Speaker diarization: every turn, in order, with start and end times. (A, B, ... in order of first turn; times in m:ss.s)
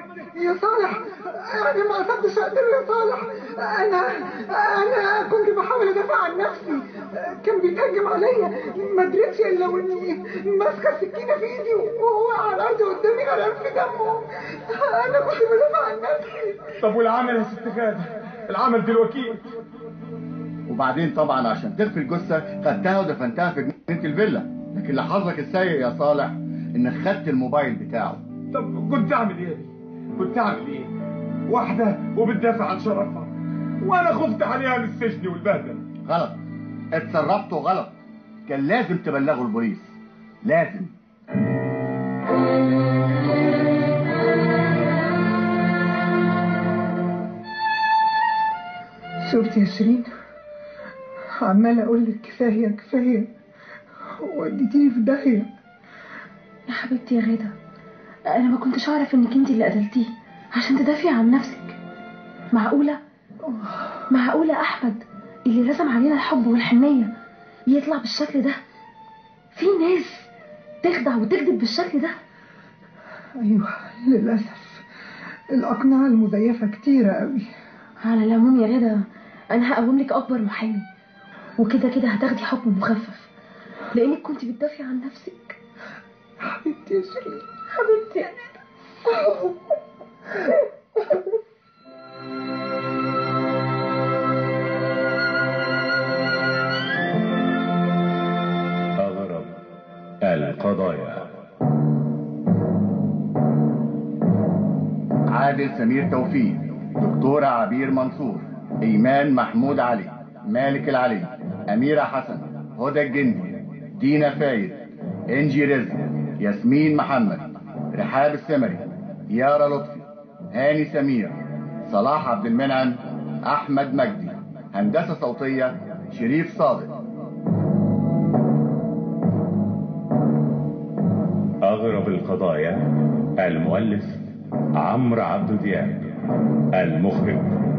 0:00.4-0:16.7 A
0:16.8-0:19.5 B
0:20.7-0:28.2 C
0:28.5-0:30.9 B
0:31.5-0:33.3 B
0:33.8-0:35.8 B
0:36.0-0:36.4 C
0:36.9-0:40.9 C
0:49.2-0:50.1 A
0:51.4-0:53.3 A
0:54.1-0:55.5 A
0:56.7-0:57.5 D
0:58.3-1:01.8 D
1:02.5-1:03.0 D
1:03.4-1:04.0 A
1:04.1-1:07.1 D
1:07.7-1:08.5 D
1:09.5-1:10.3 D
1:10.8-1:12.1 D
1:13.4-1:14.8 A
1:15.5-1:17.5 A
1:18.0-1:20.9 D
1:21.6-1:23.3 D
1:23.9-1:25.6 D
1:26.4-1:27.4 A
1:27.7-1:28.4 D
1:39.0-1:39.5 E
1:40.2-1:41.2 E
1:45.3-2:01.4 C
2:01.9-2:06.9 C
2:11.6-2:12.8 E
2:13.4-2:14.2 E
2:14.8-2:16.1 E
2:16.7-2:17.6 E